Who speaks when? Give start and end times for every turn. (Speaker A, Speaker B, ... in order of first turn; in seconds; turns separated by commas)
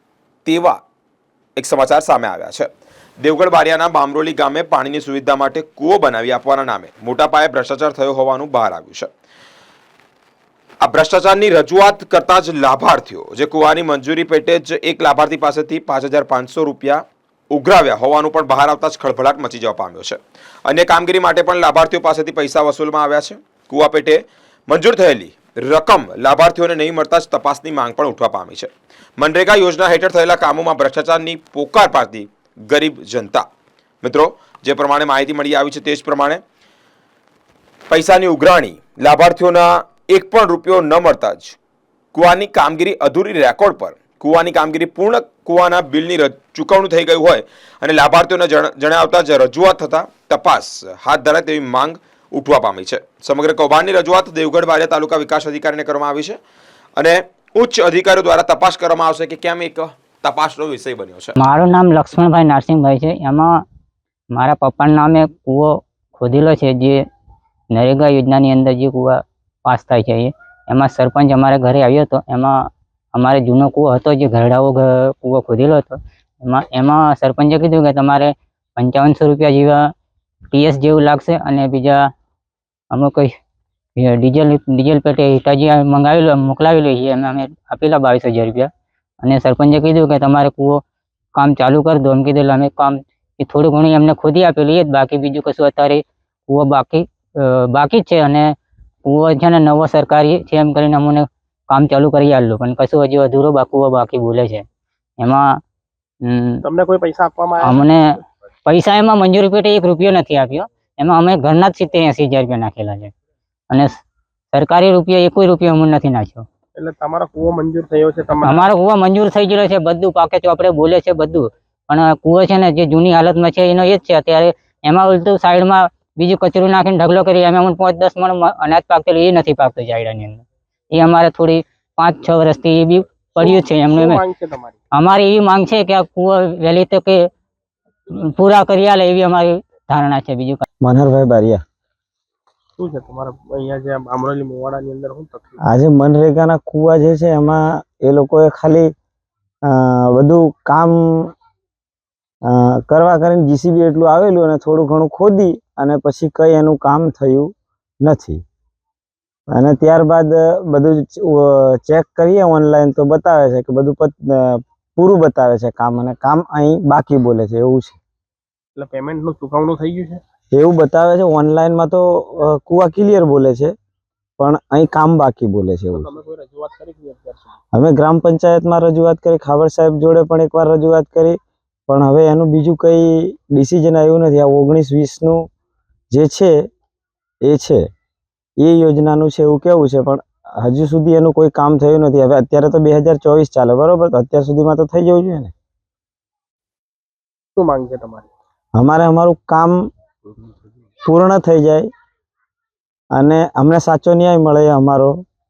Speaker A: 0.4-0.8, Speaker A: 1.6-2.7, Speaker A: 3.2-9.1, Speaker A: 10.8-33.4, Speaker A: 34.0-36.4, Speaker A: 37.9-41.6, Speaker A: 42.1-56.4, Speaker A: 57.0-61.3, Speaker B: 61.4-63.5, Speaker B: 64.3-67.0, Speaker B: 67.7-72.6, Speaker B: 73.1-79.8, Speaker B: 80.5-82.0, Speaker B: 82.9-83.3, Speaker B: 84.0-88.7, Speaker B: 89.2-90.8, Speaker B: 91.3-98.5, Speaker B: 99.0-104.6, Speaker B: 105.2-105.5, Speaker B: 106.2-106.6, Speaker C: 106.6-107.8, Speaker B: 107.6-108.0, Speaker B: 108.7-113.1, Speaker B: 114.5-116.5, Speaker C: 116.8-118.7, Speaker B: 118.4-134.2, Speaker C: 133.4-134.8, Speaker B: 134.9-137.2, Speaker B: 138.1-140.6, Speaker D: 140.8-141.6, Speaker C: 142.8-145.6, Speaker D: 145.7-148.9, Speaker D: 149.7-151.3, Speaker D: 152.5-157.5, Speaker D: 158.0-158.4, Speaker D: 159.5-168.0, Speaker C: 168.8-170.2, Speaker D: 170.5-173.7, Speaker D: 174.4-176.1, Speaker C: 175.9-177.5, Speaker D: 177.7-181.3, Speaker D: 181.9-185.4, Speaker D: 186.1-186.5, Speaker D: 187.4-187.8, Speaker D: 188.6-195.5, Speaker C: 197.6-198.3, Speaker D: 198.8-199.8, Speaker D: 201.1-201.9, Speaker D: 203.2-205.1